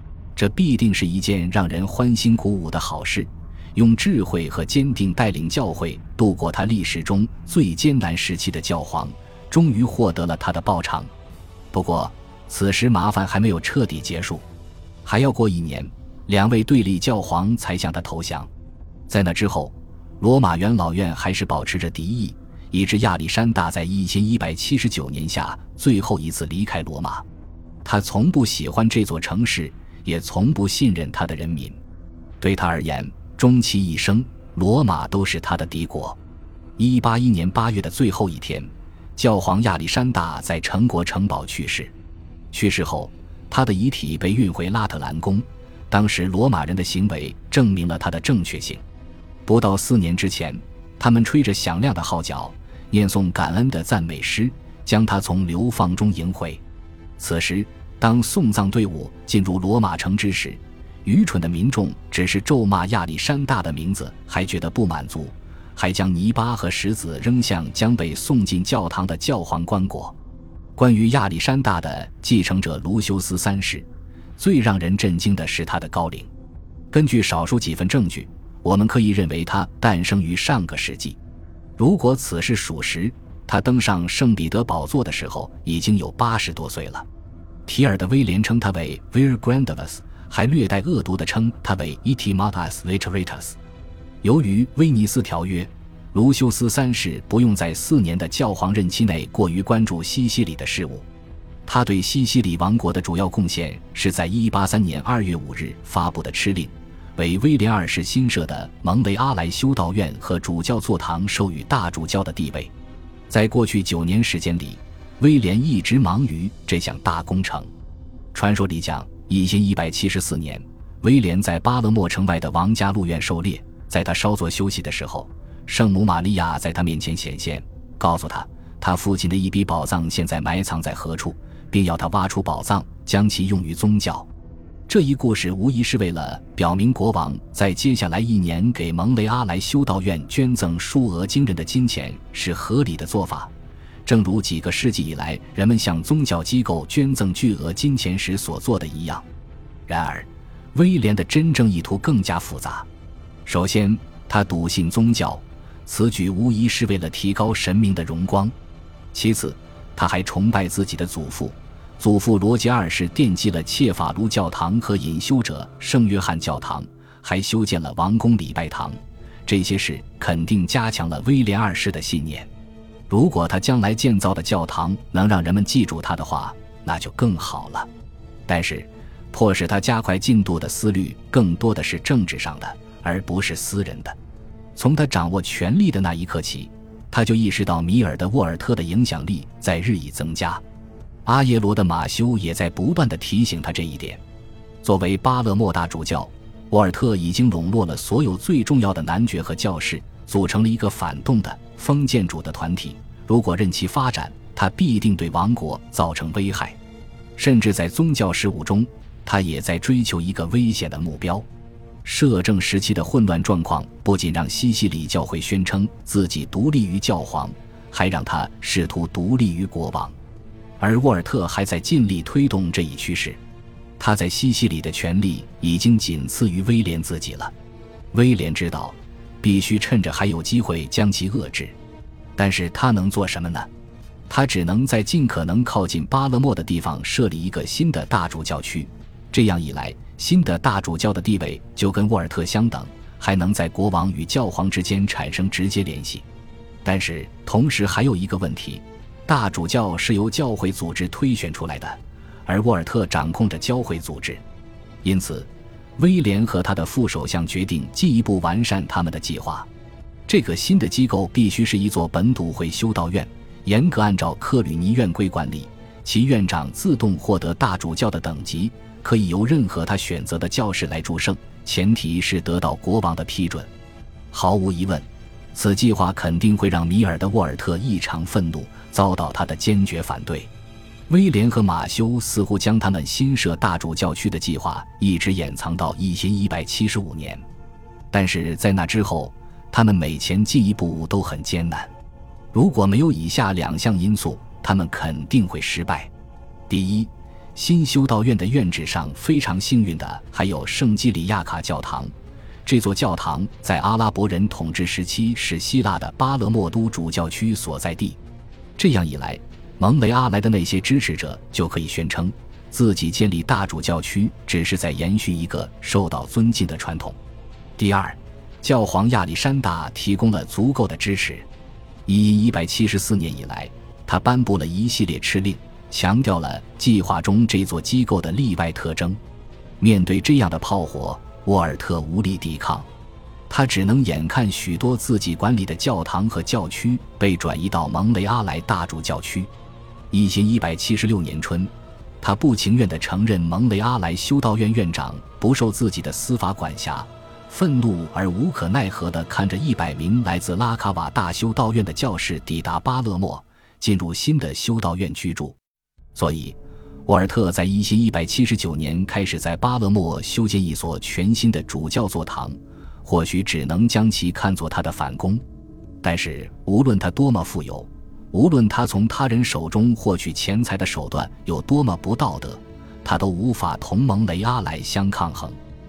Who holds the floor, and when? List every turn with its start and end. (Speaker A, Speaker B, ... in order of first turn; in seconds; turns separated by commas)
Speaker A: 0.3-11.1, Speaker A: 11.7-14.4, Speaker A: 15.0-18.5, Speaker A: 19.1-27.2, Speaker A: 27.8-31.8, Speaker A: 32.4-36.2, Speaker A: 36.8-41.9, Speaker A: 42.5-48.8, Speaker A: 49.5-56.6, Speaker A: 57.2-70.2, Speaker A: 70.8-73.9, Speaker A: 74.4-76.3, Speaker A: 76.9-81.2, Speaker A: 81.8-87.1, Speaker A: 87.7-93.6, Speaker A: 94.2-101.0, Speaker A: 101.7-112.7, Speaker A: 113.3-117.7, Speaker A: 118.3-134.3, Speaker A: 134.9-143.5, Speaker A: 144.1-149.2, Speaker A: 149.9-152.9, Speaker A: 153.4-158.5, Speaker A: 159.1-172.5, Speaker A: 173.1-177.9, Speaker A: 178.5-184.2, Speaker A: 184.8-190.6, Speaker A: 191.2-194.2, Speaker A: 194.8-206.8, Speaker A: 207.3-211.4, Speaker A: 212.0-220.1, Speaker A: 220.8-223.4, Speaker A: 224.0-227.5, Speaker A: 228.1-231.8, Speaker A: 232.4-233.7, Speaker A: 234.3-246.2, Speaker A: 246.8-254.4, Speaker A: 255.0-259.7, Speaker A: 260.3-273.7, Speaker A: 274.3-280.5, Speaker A: 281.1-287.4, Speaker A: 288.1-291.9, Speaker A: 292.5-296.1, Speaker A: 296.7-302.1, Speaker A: 302.6-308.2, Speaker A: 308.8-317.2, Speaker A: 317.8-321.4, Speaker A: 322.1-329.2, Speaker A: 329.8-332.9, Speaker A: 333.5-339.5, Speaker A: 340.1-355.6, Speaker A: 356.1-365.4, Speaker A: 366.0-375.6